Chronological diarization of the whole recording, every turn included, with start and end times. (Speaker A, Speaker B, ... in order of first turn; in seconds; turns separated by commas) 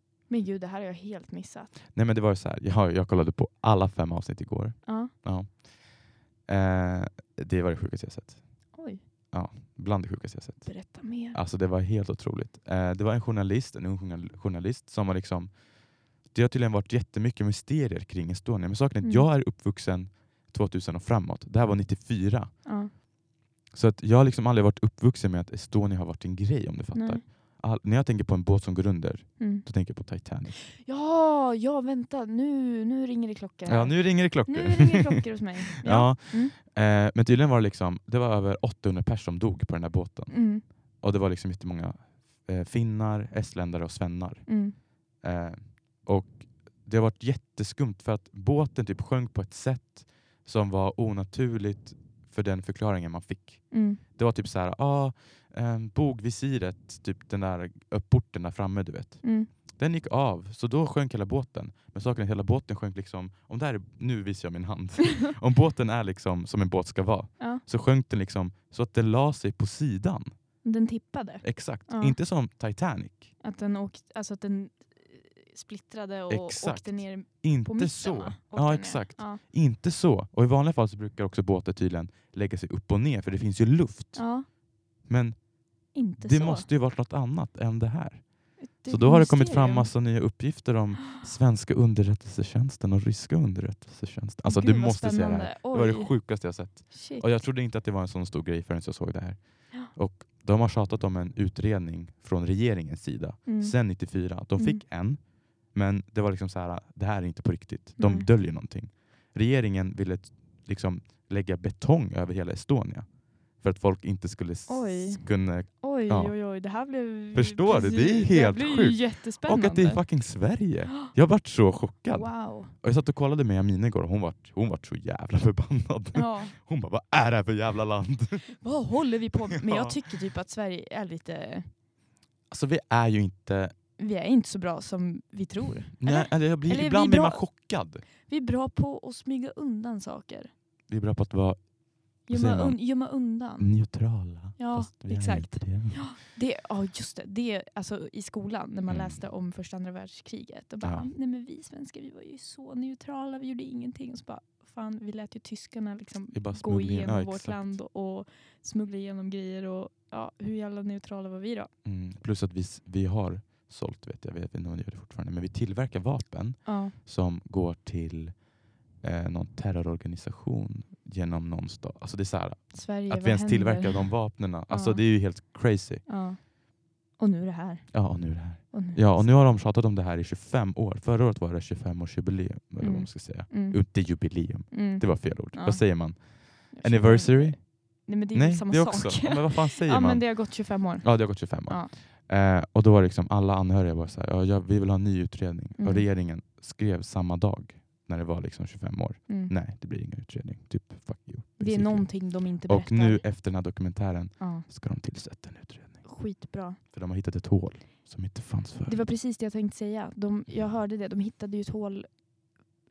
Speaker A: 0.3-1.7, Speaker B: 1.9-8.8, Speaker A: 4.8-5.1, Speaker A: 8.7-9.0, Speaker B: 9.3-23.0, Speaker A: 10.7-11.4, Speaker A: 19.0-19.3, Speaker A: 22.6-22.9, Speaker B: 23.7-30.5, Speaker A: 26.9-27.2, Speaker A: 29.4-30.1, Speaker A: 30.7-36.5, Speaker B: 33.6-70.3, Speaker A: 40.3-40.6, Speaker A: 44.5-44.8, Speaker A: 53.7-54.0, Speaker A: 59.2-59.5, Speaker A: 70.6-72.2, Speaker B: 71.4-73.3, Speaker A: 73.4-79.4, Speaker B: 76.3-128.7, Speaker A: 84.1-84.5, Speaker A: 85.9-86.7, Speaker A: 88.6-89.9, Speaker A: 94.4-97.3, Speaker A: 103.5-104.8, Speaker A: 108.0-108.3, Speaker A: 114.7-121.1, Speaker A: 122.1-122.7, Speaker A: 126.1-126.5, Speaker A: 128.6-131.7, Speaker B: 129.7-129.9, Speaker B: 132.5-133.7, Speaker A: 134.0-140.5, Speaker B: 136.0-138.0, Speaker B: 140.9-146.1, Speaker A: 142.2-161.7, Speaker B: 148.9-149.2, Speaker B: 150.8-151.1, Speaker B: 156.3-157.8, Speaker B: 161.8-176.1, Speaker A: 166.6-166.9, Speaker A: 172.7-175.5, Speaker A: 176.1-179.3, Speaker B: 177.9-206.2, Speaker A: 182.8-191.9, Speaker A: 195.8-196.1, Speaker A: 199.3-199.5, Speaker A: 201.6-203.7, Speaker A: 204.4-204.7, Speaker A: 206.0-206.8, Speaker B: 206.8-209.1, Speaker A: 208.8-212.1